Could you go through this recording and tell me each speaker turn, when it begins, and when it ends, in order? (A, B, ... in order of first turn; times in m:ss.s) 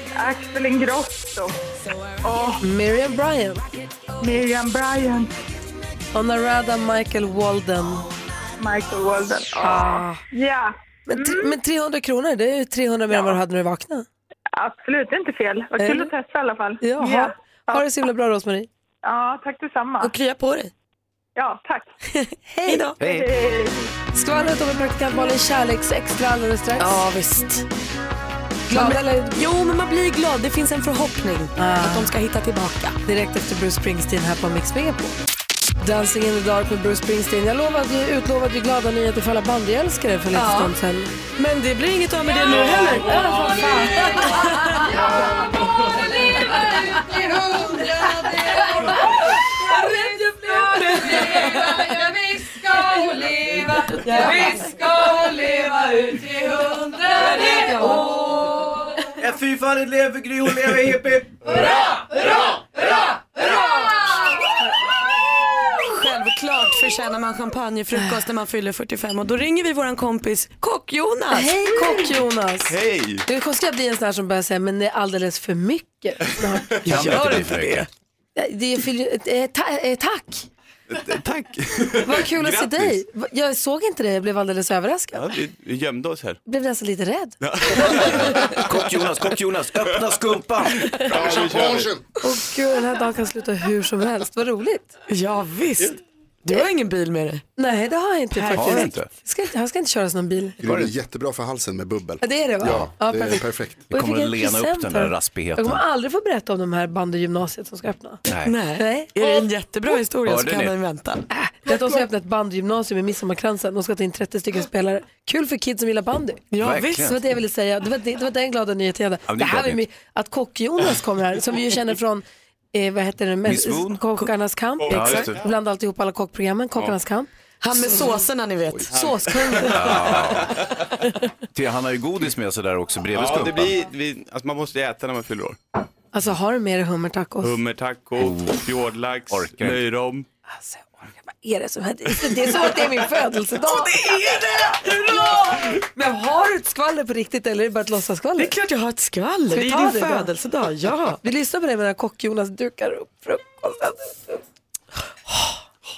0:00.2-0:01.5 A
0:02.2-0:02.6 A
0:02.6-0:03.6 B
0:04.2-0:05.3 A
0:06.1-0:08.1 B
0:08.6-0:11.5 A
0:09.6-0:10.2 B
0:11.1-0:14.1 B
0:14.6-0:17.8 A
0:15.8-0:16.1 B
0:16.8-0:18.7 B
0:19.0-0:20.1 A
0:20.0-0:20.7 C
0:21.4-0:21.9 A
0:22.5-0:22.8 B
0:22.7-0:23.0 C
0:23.0-0:23.3 D
0:23.0-0:23.9 A
0:24.1-0:27.1 B
0:26.8-0:27.7 C
0:28.7-0:29.4 B
0:28.7-0:33.0 C
0:31.6-0:32.1 B
0:33.1-0:35.2 B
0:35.8-0:41.1 B
0:40.3-0:40.7 C
0:41.4-0:43.3 C
0:43.0-0:44.5 B
0:44.3-0:44.8 C
0:49.8-0:50.1 B
0:50.7-0:51.2 B
0:54.0-0:54.5 C
0:54.0-0:54.4 B
0:57.2-0:58.1 B
0:59.2-1:01.6 D
1:05.7-1:12.1 C
1:11.3-1:16.7 B
1:12.7-1:13.2 E
1:16.8-1:17.9 C
1:16.9-1:17.9 D
1:18.4-1:20.5 B
1:20.9-1:22.9 E
1:22.0-1:25.2 B
1:25.1-1:26.4 E
1:26.5-1:28.2 B
1:27.4-1:28.5 E
1:28.6-1:31.2 D
1:30.9-1:31.9 E
1:31.1-1:32.0 F
1:32.2-1:34.9 B
1:35.1-1:37.4 C
1:37.6-1:40.6 B
1:38.5-1:39.1 D
1:40.6-1:43.9 F
1:40.6-1:40.9 D
1:42.2-1:48.2 B
1:42.6-1:42.9 D
1:43.9-1:45.8 D
1:48.3-1:48.6 D
1:48.4-1:51.3 C
1:48.8-1:49.4 B
1:50.3-1:50.7 D
1:51.3-1:56.4 B
1:56.5-1:57.1 C
1:56.6-1:57.2 D
1:57.0-2:07.3 B
1:59.3-1:59.8 D
2:03.5-2:04.0 D
2:04.8-2:05.3 E
2:04.9-2:05.4 D
2:07.6-2:08.9 C
2:08.9-2:10.3 B
2:08.9-2:10.5 E
2:09.7-2:10.5 D
2:11.5-2:13.8 D
2:13.1-2:15.6 E
2:16.1-2:17.6 B
2:17.4-2:20.3 E
2:18.2-2:18.7 D
2:19.3-2:19.8 D
2:20.6-2:24.0 B
2:23.6-2:25.8 C
2:24.9-2:28.5 B
2:28.4-2:31.2 C
2:29.5-2:30.3 B
2:31.2-2:34.4 B